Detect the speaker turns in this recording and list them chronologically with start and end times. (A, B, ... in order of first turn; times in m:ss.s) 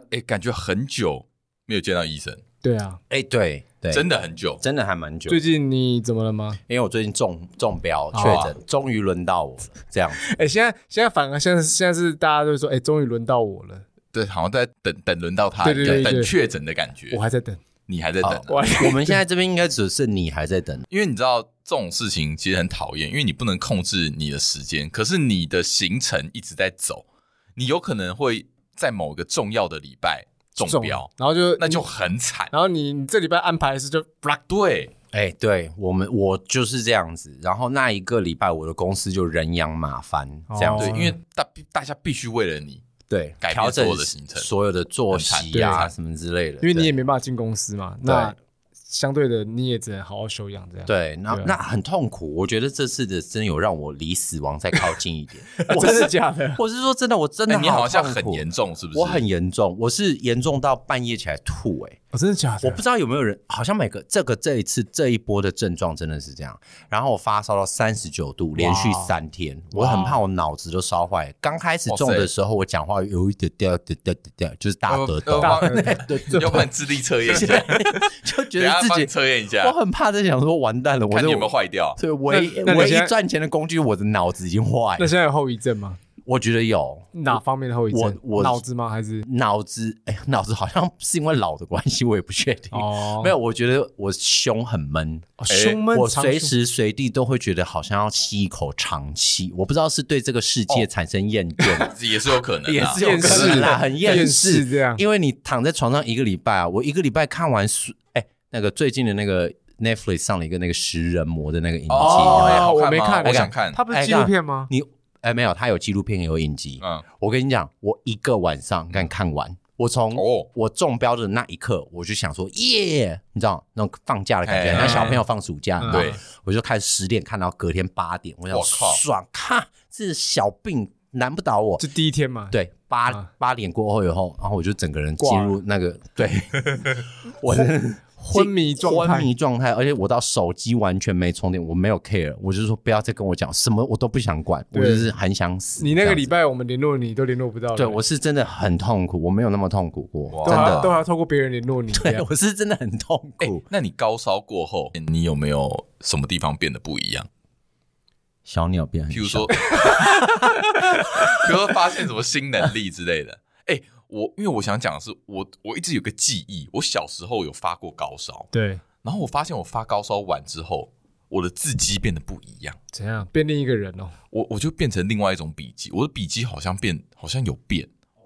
0:00.1-0:02.4 A
0:02.6-0:03.0 B
0:03.1-0:04.1 C
0:03.9-0:04.6 A
0:04.6-0:05.4 C
0:05.3-0:06.6 B
0:06.7-0:10.2 C
0:08.1-0:08.4 B
0:08.2-0:08.5 A
0:10.1-0:13.8 B
0:14.1-0:17.2 A
0:15.6-0:16.3 B
0:17.1-0:17.6 B
0:17.9-0:18.6 A
0:18.2-0:20.9 C
0:18.5-0:19.2 B
0:20.9-0:27.0 A
0:27.6-0:32.5 A
0:30.6-0:31.9 B
0:32.5-0:34.4 B
0:34.5-0:34.9 A
0:35.1-0:41.0 C
0:40.5-0:41.2 B
0:40.8-0:42.8 A
0:43.1-0:46.9 C
0:43.4-0:44.5 A
0:45.1-0:45.9 A
0:45.5-0:45.9 B
0:46.6-0:48.4 B
0:48.0-0:48.4 C
0:48.9-0:51.6 B
0:50.9-1:02.0 C
0:55.6-0:56.6 B
0:57.5-0:59.2 A
1:02.1-1:02.8 B
1:02.6-1:16.7 C
1:08.6-1:09.2 B
1:09.8-1:10.2 B
1:11.9-1:12.3 A
1:14.9-1:19.8 A
1:15.4-1:16.7 B
1:17.3-1:25.1 C
1:21.1-1:22.0 A
1:22.3-1:23.1 B
1:25.0-1:26.0 B
1:26.2-1:27.4 C
1:27.1-1:29.3 B
1:27.9-1:28.6 C
1:29.2-1:42.0 C
1:32.7-1:33.4 B
1:35.4-1:36.5 B
1:35.5-1:35.8 A
1:41.6-1:43.8 A
1:42.6-1:52.7 C
1:43.0-1:45.0 B
1:51.9-1:53.8 A
1:52.0-1:54.7 B
1:53.2-2:11.8 C
1:56.8-1:57.1 A
2:00.1-2:00.5 A
2:04.4-2:05.2 A
2:04.7-2:05.2 B
2:05.8-2:06.2 B
2:05.9-2:06.2 A
2:08.5-2:09.0 A
2:11.8-2:12.6 B
2:12.5-2:26.3 C
2:15.2-2:15.6 B
2:18.2-2:19.3 B
2:24.7-2:25.1 B
2:25.8-2:28.0 B
2:27.7-2:30.9 C
2:30.3-2:31.0 A
2:30.4-2:32.3 B
2:31.9-2:33.6 C
2:33.4-2:37.3 A
2:38.4-2:41.7 C
2:39.1-2:48.5 A
2:48.5-2:48.8 B
2:49.0-2:52.8 A
2:52.9-2:54.1 B
2:54.3-2:57.9 A